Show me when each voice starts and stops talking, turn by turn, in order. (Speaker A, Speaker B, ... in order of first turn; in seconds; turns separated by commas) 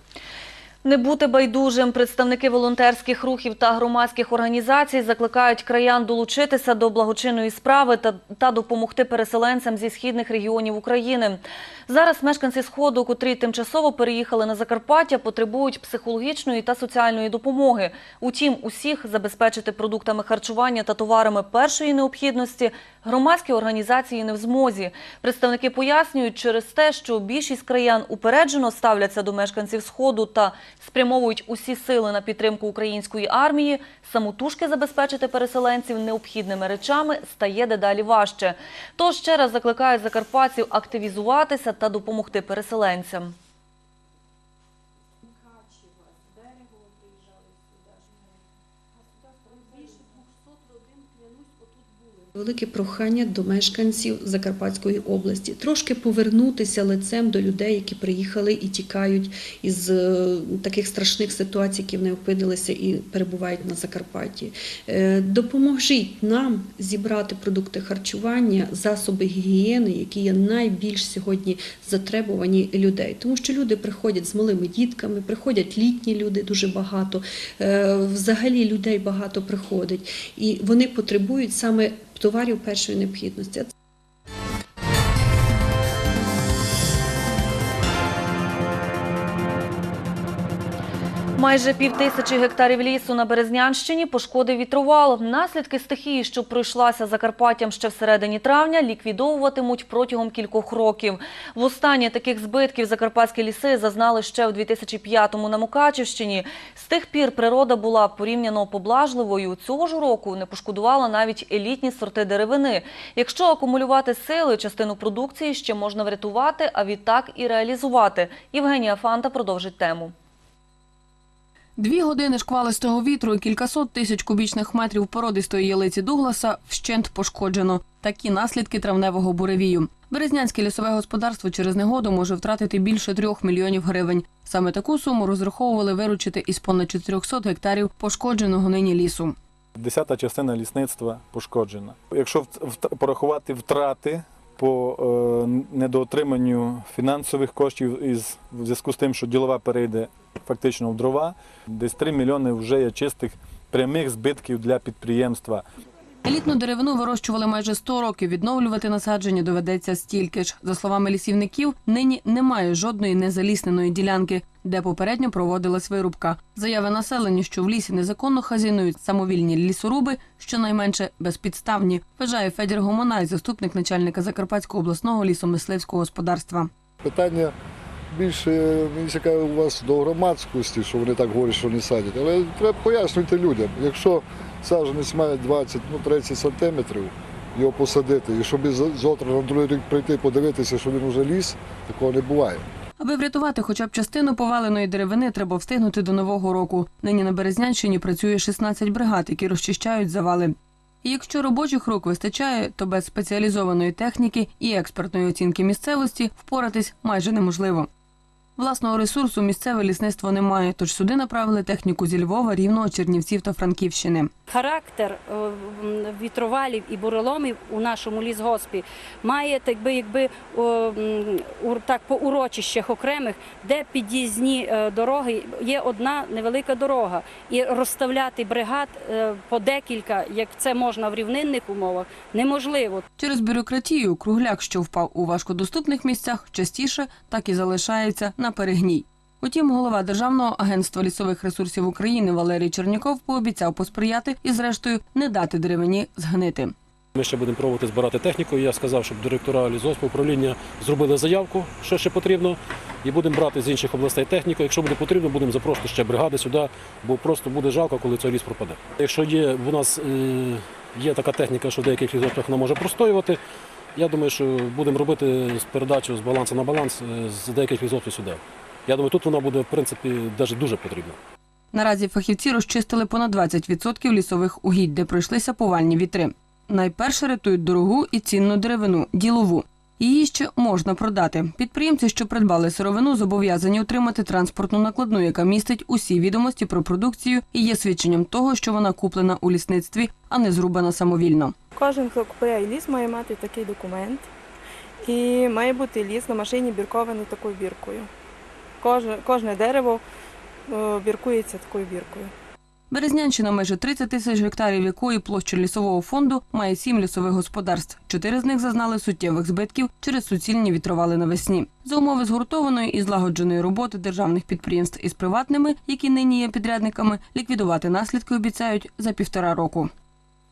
Speaker A: 0.8-43.3, Speaker B: 52.4-83.7, Speaker A: 91.4-120.1, Speaker C: 121.8-139.3, Speaker D: 139.8-155.6, Speaker C: 156.2-176.7, Speaker E: 177.0-177.5, Speaker E: 178.1-192.7, Speaker C: 193.0-207.9, Speaker C: 208.6-214.3, Speaker F: 214.5-233.0, Speaker C: 233.2-246.7, Speaker G: 247.1-263.4, Speaker G: 263.9-271.2, Speaker C: 271.7-291.5, Speaker H: 291.7-294.2, Speaker H: 295.0-298.1, Speaker H: 298.8-300.0, Speaker H: 300.7-302.3, Speaker C: 302.9-319.9